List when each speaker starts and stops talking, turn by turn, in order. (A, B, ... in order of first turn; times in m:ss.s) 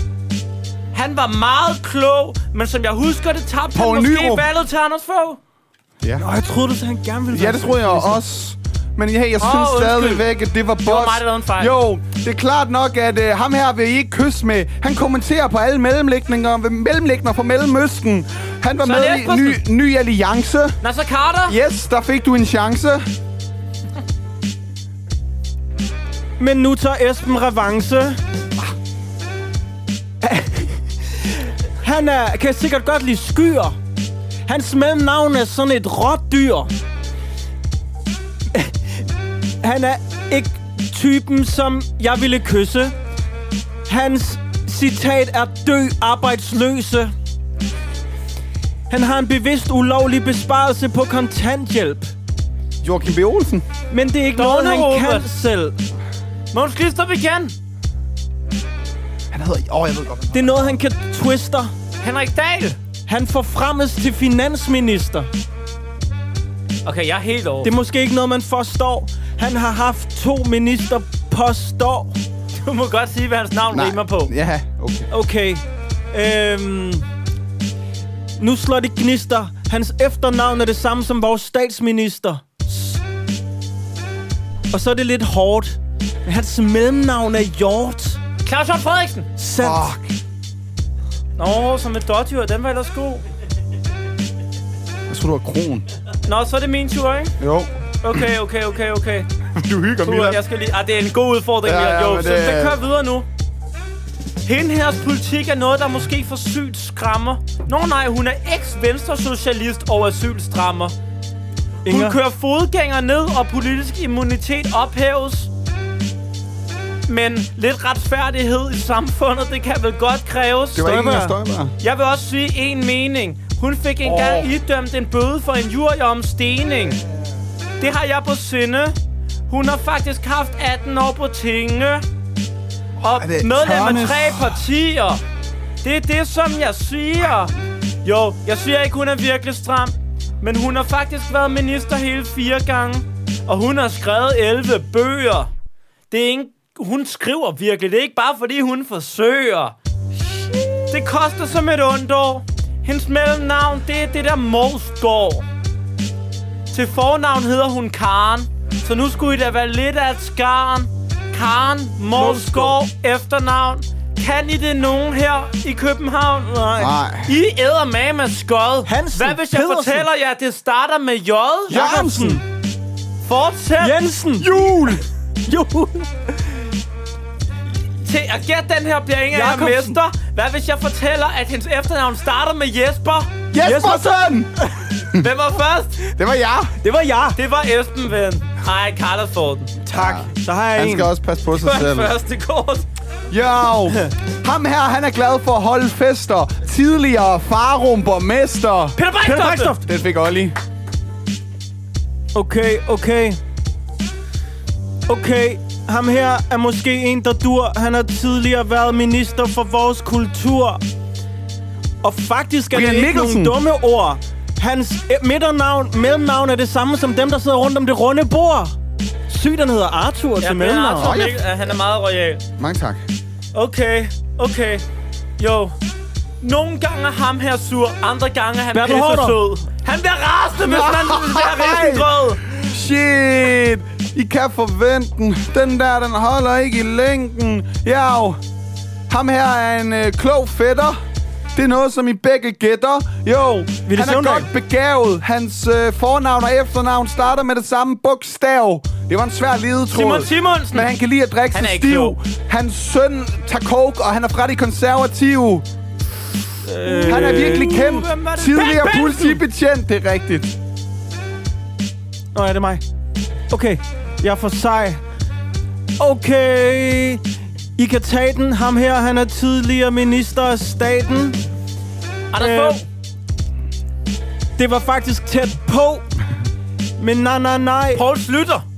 0:00.9-0:05.4 A
0:03.7-0:04.5 B
0:06.0-0:06.3 B
0:06.2-0:08.2 C
0:07.3-0:20.8 B
0:09.4-0:10.2 A
0:10.8-0:11.7 A
0:18.8-0:19.6 A
0:20.8-0:21.6 A
0:21.5-0:23.1 B
0:26.4-0:28.2 C
0:30.2-0:33.8 C
0:34.5-0:36.7 C
0:38.5-0:39.0 C
0:39.6-0:43.0 C
0:43.9-0:47.1 C
0:48.9-0:52.1 C
0:52.8-0:53.7 B
0:53.9-0:55.8 C
0:54.3-0:55.3 A
0:56.5-0:57.6 A
0:59.3-1:00.8 B
1:00.3-1:01.7 C
1:02.0-1:02.8 A
1:03.1-1:05.3 C
1:06.8-1:07.7 A
1:07.6-1:12.2 C
1:12.6-1:14.3 A
1:13.7-1:15.1 B
1:15.1-1:17.1 C
1:18.4-1:23.0 C
1:24.7-1:28.2 C
1:28.4-1:29.3 A
1:29.4-1:29.9 C
1:29.6-1:30.2 B
1:31.4-1:33.2 A
1:35.1-1:35.9 B
1:36.3-1:37.4 A
1:37.4-1:38.2 B
1:38.0-1:39.3 A
1:39.6-1:40.4 B
1:40.0-1:43.3 A
1:41.6-1:42.8 B
1:44.4-1:51.0 A
1:51.8-1:52.2 C
1:51.9-1:55.5 A
1:57.1-2:00.9 A
2:00.8-2:01.7 B
2:00.8-2:01.4 C
2:01.8-2:07.0 A
2:04.0-2:04.5 B
2:07.8-2:09.0 A
2:09.5-2:12.0 A
2:13.0-2:15.2 A
2:13.2-2:14.6 B
2:15.8-2:17.5 A
2:18.0-2:25.5 A
2:26.1-2:29.8 A
2:30.3-2:30.9 C
2:30.9-2:35.5 A
2:36.7-2:46.5 A
2:42.1-2:42.8 C
2:46.4-2:47.0 C
2:46.8-2:47.3 B
2:47.3-2:51.8 A
2:48.9-2:50.1 C
2:51.7-2:52.4 B
2:51.7-2:52.4 C
2:53.2-2:54.0 A
2:53.8-2:54.5 C
2:54.4-2:55.0 B
2:55.5-2:56.6 C
2:58.0-3:03.3 A
2:59.3-3:00.0 C
3:03.5-3:04.5 B
3:03.6-3:05.0 C
3:05.1-3:06.0 A
3:06.2-3:06.8 B
3:06.8-3:07.4 C
3:07.4-3:09.7 A
3:09.8-3:11.1 C
3:09.9-3:12.1 B
3:11.5-3:12.9 A
3:13.3-3:19.0 B
3:19.0-3:19.8 A
3:19.2-3:19.9 C
3:19.8-3:20.6 B
3:22.4-3:23.4 C
3:25.1-3:30.8 C
3:32.0-3:38.8 C
3:32.7-3:33.6 B
3:39.3-3:41.2 C
3:40.4-3:42.4 A
3:41.0-3:41.7 B
3:42.6-3:43.0 B
3:43.5-3:44.8 A
3:45.4-3:45.8 A
3:46.4-3:52.4 A
3:48.7-3:49.4 C
3:50.6-3:58.4 B
3:59.1-4:01.0 B
4:01.6-4:15.7 B
4:03.9-4:04.5 C
4:09.9-4:10.9 A
4:11.5-4:12.2 A
4:16.6-4:17.8 C
4:16.8-4:19.4 A
4:17.1-4:20.6 B
4:22.4-4:22.8 C
4:23.5-4:25.0 C
4:26.0-4:27.2 C
4:27.8-4:31.4 C
4:32.3-4:32.8 A
4:32.4-4:32.8 C
4:34.6-4:36.0 C
4:37.0-4:38.0 C
4:38.0-4:38.6 A